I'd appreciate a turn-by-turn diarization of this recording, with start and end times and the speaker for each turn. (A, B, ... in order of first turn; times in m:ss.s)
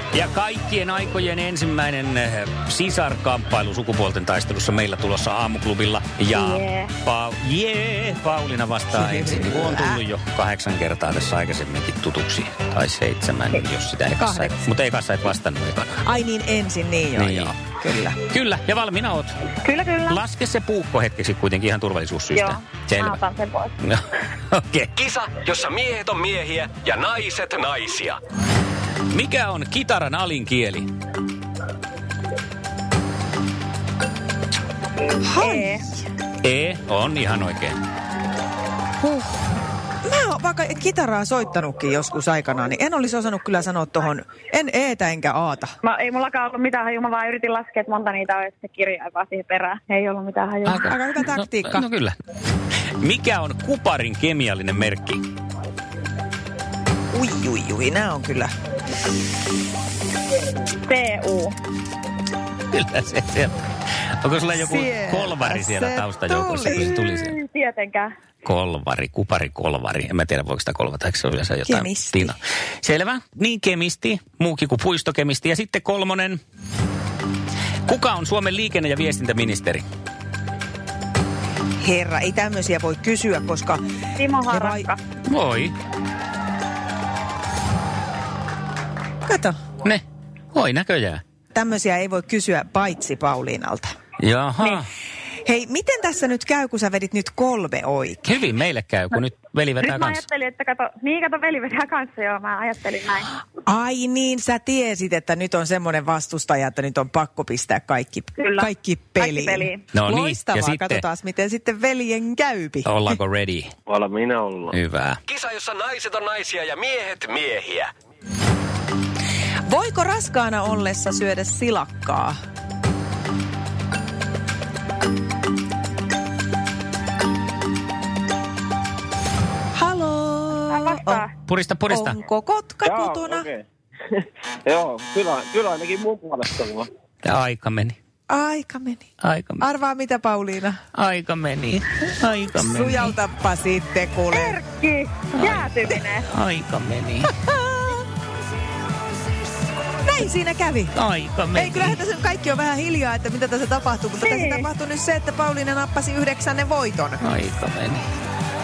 0:00.1-0:16.0 A
0:06.3-0:06.9 B
0:08.9-0:10.0 C
0:14.2-0:14.6 C
0:16.0-0:18.2 C
0:17.2-0:17.6 A
0:18.3-0:19.3 A
0:19.6-0:20.2 B
0:20.0-0:23.2 A
0:22.3-0:23.7 B
0:23.8-0:24.9 A
0:25.0-0:28.2 D
0:29.1-0:30.9 A
0:35.2-0:35.7 C
0:35.4-0:35.8 B
0:36.4-0:37.8 A
0:39.0-0:39.3 C
0:40.0-0:45.8 C
0:45.8-0:50.8 B
0:50.6-0:52.1 A
0:50.8-0:51.8 C
0:53.0-0:55.2 A
0:57.1-0:58.5 C
1:00.8-1:01.5 B
1:02.7-1:07.4 A
1:04.6-1:07.1 C
1:07.3-1:08.1 B
1:08.4-1:16.4 A
1:11.6-1:12.4 C
1:17.9-1:19.8 A
1:21.8-1:23.8 C
1:24.2-1:25.0 B
1:24.5-1:24.8 C
1:25.2-1:25.7 A
1:29.2-1:29.6 C
1:29.8-1:31.2 A
1:31.5-1:33.9 C
1:34.2-1:34.9 A
1:35.4-1:38.2 C
1:38.2-1:40.2 A
1:39.8-1:43.3 B
1:43.6-1:53.0 C
1:48.4-1:48.7 B
1:49.2-1:49.8 B
1:49.9-1:51.0 A
1:52.8-1:53.7 A
1:53.9-1:54.8 E
1:54.7-1:55.2 A
1:55.3-1:57.9 D
1:59.7-2:02.4 C
2:09.7-2:11.2 C
2:10.7-2:11.2 B
2:11.4-2:12.2 A
2:11.9-2:13.5 C
2:12.8-2:16.9 E
2:17.2-2:18.0 A
2:18.3-2:19.1 C
2:19.2-2:19.6 A
2:19.6-2:20.8 C
2:20.9-2:23.1 A
2:22.6-2:24.6 C
2:24.4-2:26.2 B
2:25.3-2:25.7 A
2:26.3-2:27.3 A
2:27.4-2:28.0 C
2:30.0-2:31.0 C
2:30.9-2:32.0 A
2:31.5-2:37.2 C
2:34.2-2:34.7 B
2:37.2-2:38.1 A